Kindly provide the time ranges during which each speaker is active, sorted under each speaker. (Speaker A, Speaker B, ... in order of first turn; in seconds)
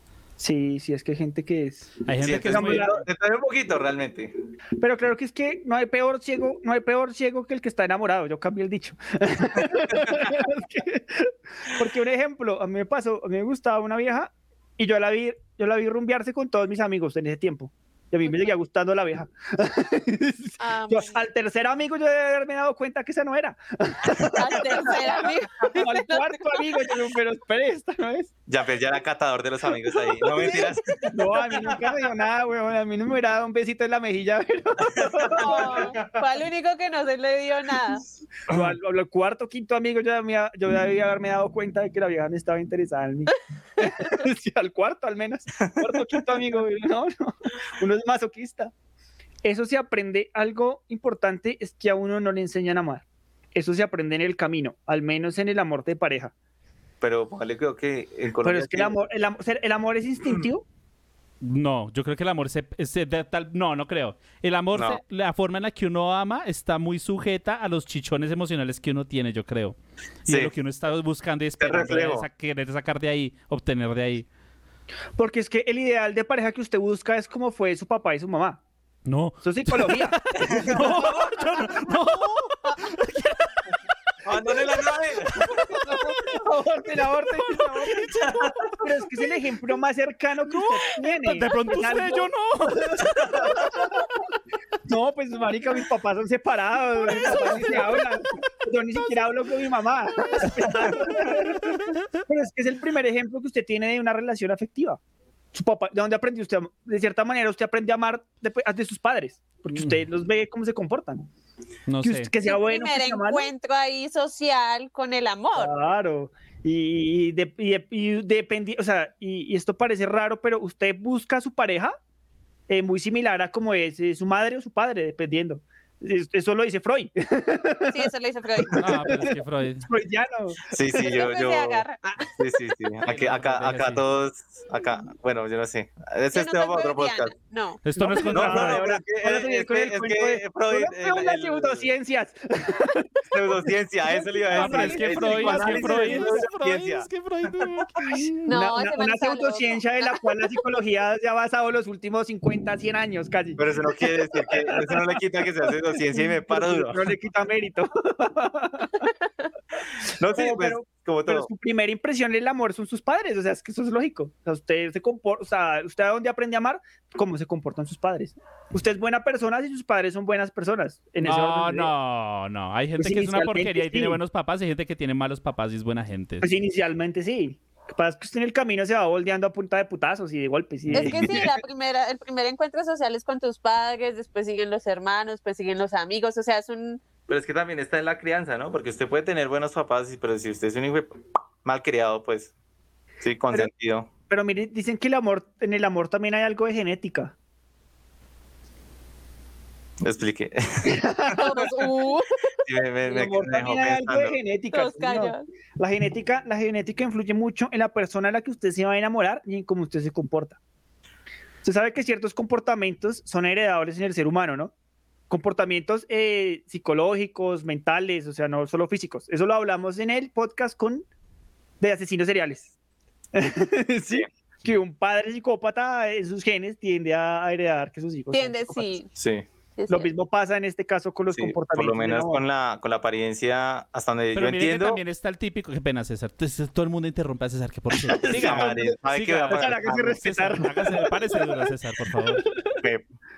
Speaker A: 0.4-2.9, 4.8-28.3, 30.2-36.0, 38.5-48.7, 49.4-56.3, 58.4-60.6, 75.2-78.6, 79.4-81.1, 85.9-94.1, 94.9-105.0, 105.5-111.3, 112.0-113.5, 115.5-122.0, 122.7-128.1, 128.6-130.8, 138.0-143.1, 144.4-146.3, 148.5-153.6, 154.4-155.0, 155.9-159.1, 160.3-171.9, 173.0-174.2, 176.4-181.4, 194.3-197.3, 200.8-201.9, 203.1-210.6, 211.6-214.7, 215.3-221.1, 221.8-222.7, 223.3-228.9, 229.9-232.4, 238.0-239.0, 239.5-241.6
Speaker B: 2.1-2.9, 61.4-74.3, 79.1-83.5, 85.5-86.0, 87.4-88.2, 90.5-93.9, 97.0-98.1, 99.0-99.4, 100.3-101.7, 111.9-112.3, 128.8-129.9, 133.1-134.0, 137.8-138.9, 144.5-148.5, 171.2-176.5, 234.3-242.4
Speaker C: 2.2-4.3, 28.5-31.8, 34.9-36.1, 57.0-59.0, 64.7-65.0, 70.3-70.5, 71.6-72.3, 80.5-81.4, 84.2-85.6, 88.2-88.6, 130.7-131.9, 132.4-137.3, 138.2-141.9, 143.3-147.7, 153.6-157.1, 160.2-161.5, 180.9-181.5, 187.3-192.5, 193.2-194.1, 200.0-201.4, 202.7-204.4, 229.2-229.4, 231.3-235.0, 238.2-240.2
Speaker D: 18.2-18.5, 20.6-21.2, 24.3-26.7, 35.4-38.0, 112.4-115.7, 127.9-128.8, 131.0-132.3, 136.3-137.8, 145.3-146.1, 148.5-150.3, 180.9-187.0, 201.3-202.4, 204.7-205.4, 228.3-229.1, 229.8-230.1